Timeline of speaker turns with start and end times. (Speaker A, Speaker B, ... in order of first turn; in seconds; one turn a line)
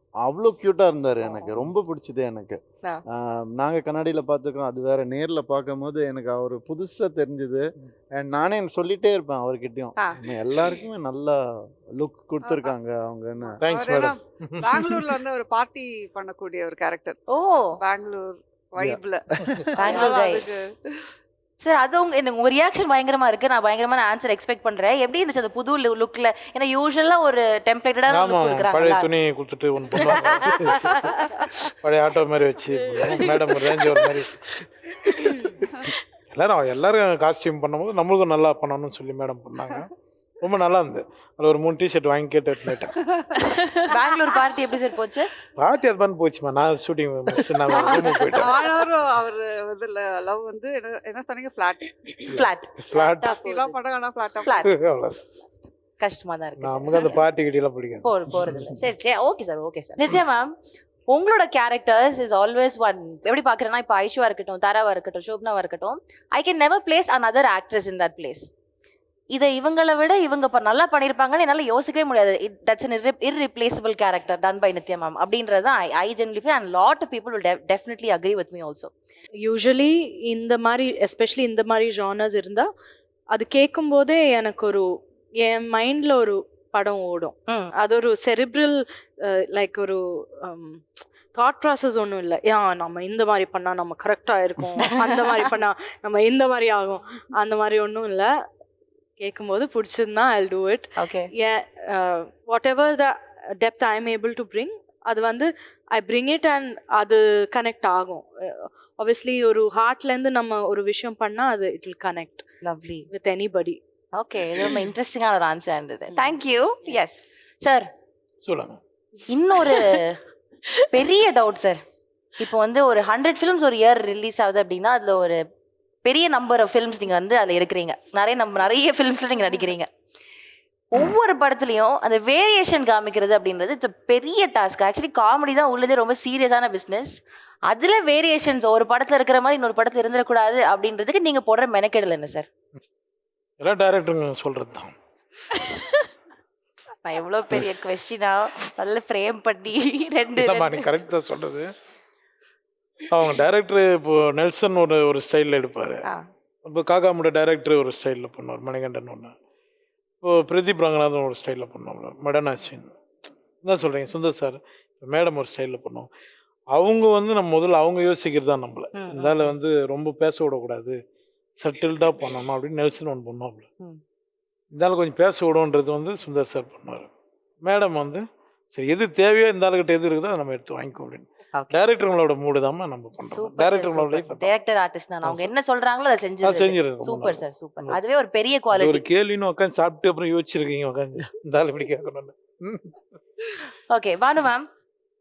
Speaker A: 0.2-2.6
Speaker A: 3.1-7.6
Speaker A: 8.2-11.4
Speaker A: 12.0-13.6
Speaker B: 12.4-12.7
Speaker B: 13.4-17.2
Speaker C: 13.6-15.1
Speaker D: 17.3-17.8
Speaker B: 17.8-21.0
Speaker A: 18.8-20.0
Speaker D: 19.8-20.4
Speaker D: 21.6-29.1
Speaker C: 28.1-34.4
Speaker D: 30.0-31.4
Speaker C: 35.0-39.9
Speaker C: 40.4-43.0
Speaker D: 43.8-45.3
Speaker C: 45.6-48.6
Speaker B: 47.7-52.2
Speaker D: 48.0-48.5
Speaker C: 52.2-53.4
Speaker D: 52.3-53.7
Speaker B: 52.9-54.5
Speaker D: 54.4-54.7
Speaker C: 54.6-55.3
Speaker D: 56.0-57.2
Speaker C: 56.6-58.8
Speaker D: 58.0-60.5
Speaker D: 61.1-68.5
Speaker D: 69.3-78.9
Speaker E: 79.4-82.7
Speaker E: 83.3-84.8
Speaker E: 85.4-98.3
Speaker D: 94.8-95.5
Speaker E: 99.2-112.4
Speaker D: 101.0-101.3
Speaker D: 112.6-113.1
Speaker E: 113.1-113.8
Speaker D: 114.1-117.9
Speaker C: 118.4-118.8
Speaker D: 119.3-120.2
Speaker D: 120.9-121.8
Speaker D: 122.4-125.4
Speaker D: 126.0-129.9
Speaker D: 130.9-137.2
Speaker D: 137.7-142.5
Speaker C: 143.6-144.9
Speaker D: 147.0-150.9
Speaker C: 150.3-151.7
Speaker C: 153.1-156.0
Speaker C: 156.6-159.3
Speaker C: 160.2-162.9
Speaker C: 163.6-166.1
Speaker C: 166.7-170.9
Speaker D: 168.9-169.5
Speaker C: 171.6-173.6
Speaker C: 174.7-177.1
Speaker C: 177.6-184.5
Speaker D: 181.5-181.8
Speaker D: 183.2-189.0
Speaker C: 185.2-185.5
Speaker C: 186.4-188.0
Speaker C: 188.7-192.9
Speaker D: 193.9-194.7